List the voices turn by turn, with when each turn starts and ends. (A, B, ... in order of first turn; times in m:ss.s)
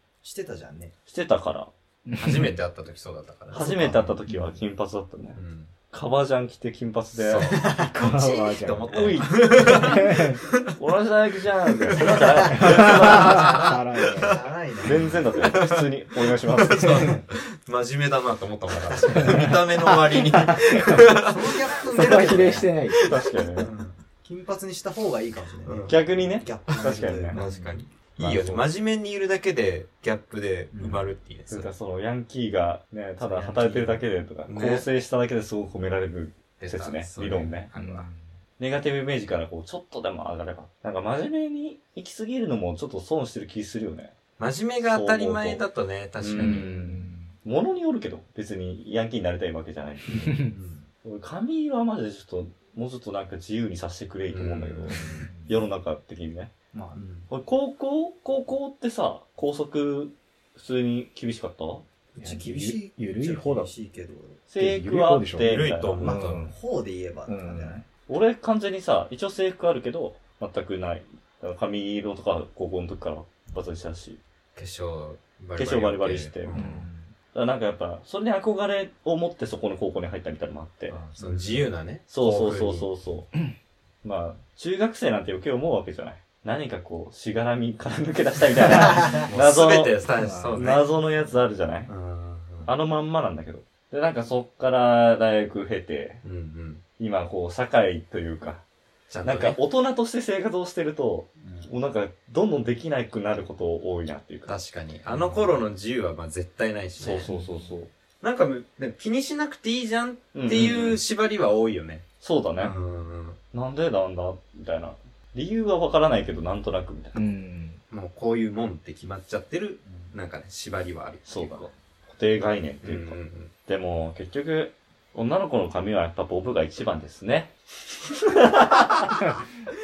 0:00.2-0:00.9 A
0:01.1-0:01.7 B
0:02.1-0:02.4 C
0:02.2-0:04.0 D
0:03.5-0:05.4 B
0:03.5-0:04.6 A
0:05.4-0:05.7 D
0:05.9-0:07.5 B
0:07.1-0:10.7 D
0:07.5-0:07.9 A
0:08.0-0:10.4 C
0:08.9-0:10.0 B
0:10.8-0:13.7 B
0:12.0-0:21.4 D
0:12.5-0:14.4 C
0:14.2-0:15.2 A
0:14.8-0:17.2 B
0:19.2-0:20.9 C
0:21.3-0:22.7 A
0:21.9-0:23.0 C
0:22.0-0:23.9 D
0:22.2-0:23.7 B
0:24.2-0:27.8 A
0:25.6-0:26.0 D
0:25.9-0:27.4 B
0:26.7-0:31.7 D
0:28.2-0:28.7 B
0:30.7-0:31.0 A
0:31.5-0:37.7 B
0:33.2-0:34.0 A
0:34.4-0:34.9 D
0:36.6-0:38.1 D
0:37.7-0:38.3 C
0:38.6-0:44.1 B
0:44.4-0:46.7 D
0:44.8-0:45.6 B
0:46.2-0:50.4 B
0:46.4-0:47.3 C
0:50.2-0:50.5 C
0:50.5-0:50.8 D
0:51.0-0:56.5 B
0:54.3-0:55.3 D
0:55.2-0:55.6 A
0:56.7-0:57.3 A
0:57.3-1:01.8 B
1:02.2-1:04.4 A
1:02.2-1:03.7 C
1:04.5-1:06.0 B
1:04.6-1:06.5 C
1:05.4-1:06.5 D
1:06.0-1:07.8 A
1:07.3-1:07.8 C
1:08.1-1:14.2 B
1:14.6-1:16.9 D
1:15.6-1:16.6 B
1:16.5-1:17.1 C
1:17.3-1:21.0 B
1:20.9-1:21.3 C
1:21.2-1:22.9 D
1:21.2-1:21.6 A
1:22.1-1:23.3 B
1:24.0-1:30.0 B
1:28.8-1:30.9 D
1:30.2-1:30.7 C
1:30.5-1:31.9 B
1:31.9-1:32.7 D
1:32.6-1:36.2 B
1:36.2-1:36.8 D
1:37.0-1:38.6 B
1:39.1-1:39.6 D
1:39.2-1:44.5 B
1:44.5-1:47.3 D
1:47.0-1:47.9 B
1:48.2-1:52.0 D
1:50.3-1:51.0 B
1:52.2-1:52.7 B
1:52.6-1:53.4 D
1:53.5-1:57.3 B
1:57.1-1:57.8 C
1:57.9-2:01.6 D
1:59.8-2:00.1 A
2:01.2-2:07.5 B
2:02.8-2:03.5 D
2:08.3-2:09.2 B